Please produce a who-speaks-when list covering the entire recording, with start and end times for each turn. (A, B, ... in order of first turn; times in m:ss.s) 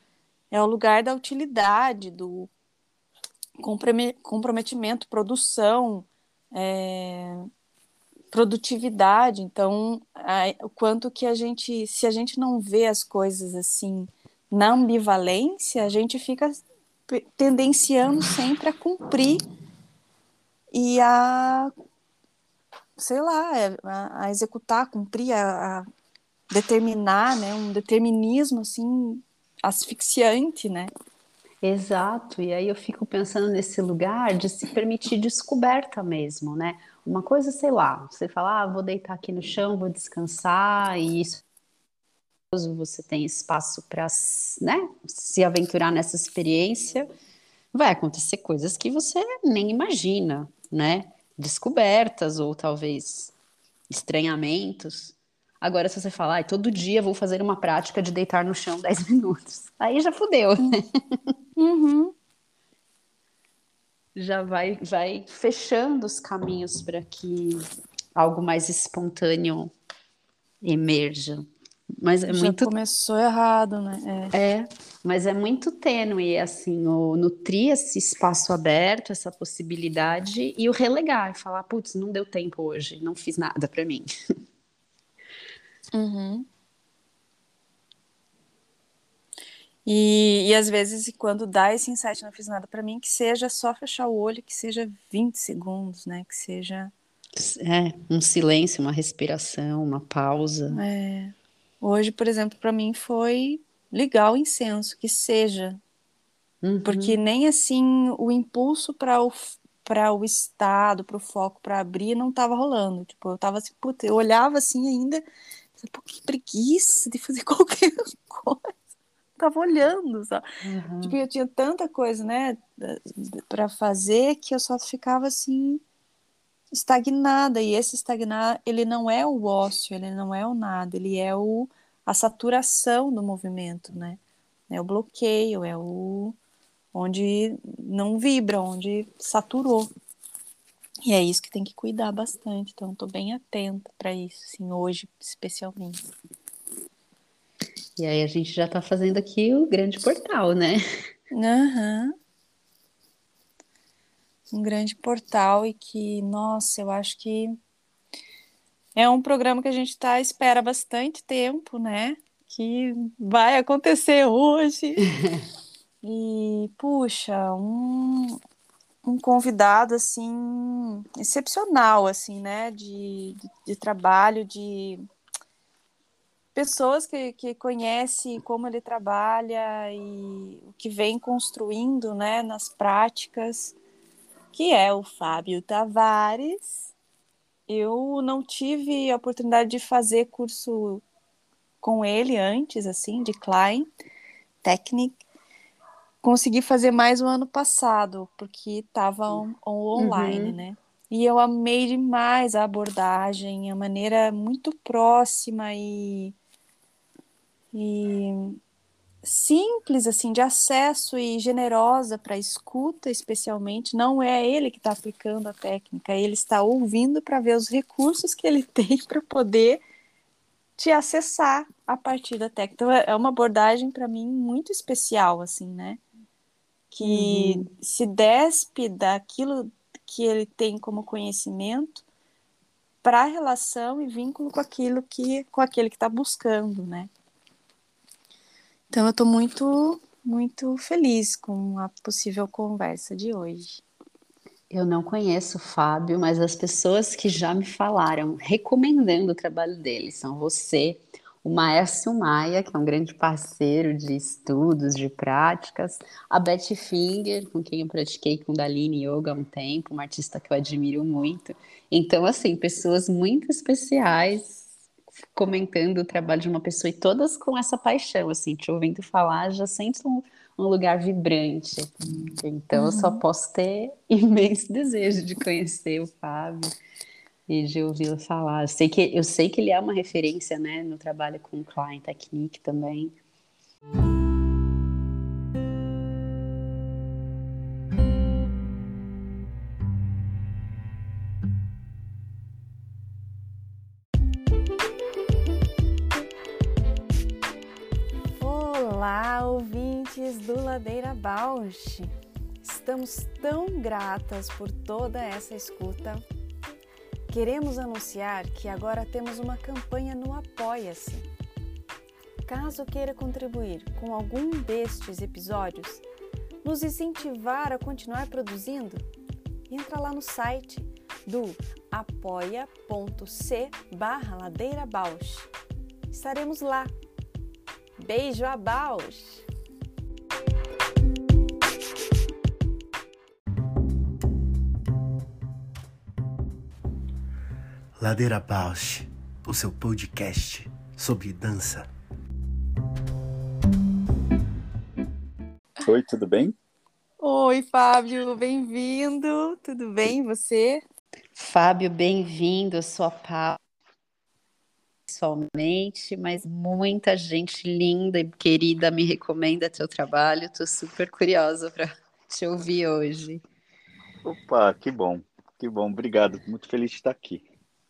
0:00.5-0:02.5 A
0:03.6-0:07.5 A
0:08.3-0:19.4 A
0:20.7-0:21.7 A
0:23.0-0:25.9 A
0:26.5-0:30.9 A
0:31.6-0:41.4 B
0:42.5-0:47.1 B
0:47.7-0:53.3 B
0:53.9-1:01.4 B
1:01.6-1:02.2 A
1:04.2-1:07.6 B
1:08.2-1:09.7 B
1:10.6-1:12.7 B
1:12.2-1:14.3 A
1:14.3-1:24.1 B
1:25.9-1:26.5 A
1:29.9-1:36.9 A
1:37.4-1:40.8 B
1:40.7-1:45.8 A
1:46.6-1:47.2 B
1:46.8-1:55.2 A
1:55.8-1:58.7 A
1:59.4-2:00.4 A
2:00.6-2:01.2 B
2:01.0-2:05.8 A
2:06.7-2:16.4 A
2:16.9-2:19.9 A
2:21.0-2:26.0 A
2:28.0-2:30.8 B
2:31.3-2:32.1 A
2:34.5-2:37.6 A
2:39.0-2:45.1 A
2:46.0-2:48.4 A
2:49.0-2:55.0 A
2:56.6-3:03.8 A
3:04.5-3:06.9 A
3:07.7-3:11.0 A
3:11.8-3:13.9 A
3:14.6-3:15.2 A
3:16.2-3:26.4 A
3:20.0-3:20.6 B
3:27.7-3:28.6 A
3:29.2-3:39.8 A
3:40.8-3:46.0 A
3:46.9-3:52.0 A
3:47.0-3:47.7 B
3:53.0-3:57.1 A
3:58.9-4:03.8 A
4:04.7-4:24.7 B
4:25.4-4:36.7 B
4:32.7-4:33.2 A
4:37.5-4:43.2 B
4:58.4-5:02.1 A
5:02.6-5:06.2 A
5:07.3-5:11.3 A
5:12.4-5:16.0 A
5:16.6-5:19.0 A
5:19.7-5:25.5 A
5:26.1-5:26.9 A
5:28.0-5:29.5 A
5:38.0-5:41.9 C
5:45.8-5:46.6 D
5:47.2-5:50.8 A
5:51.4-5:53.6 B
5:55.1-6:03.4 B
6:04.2-6:07.5 D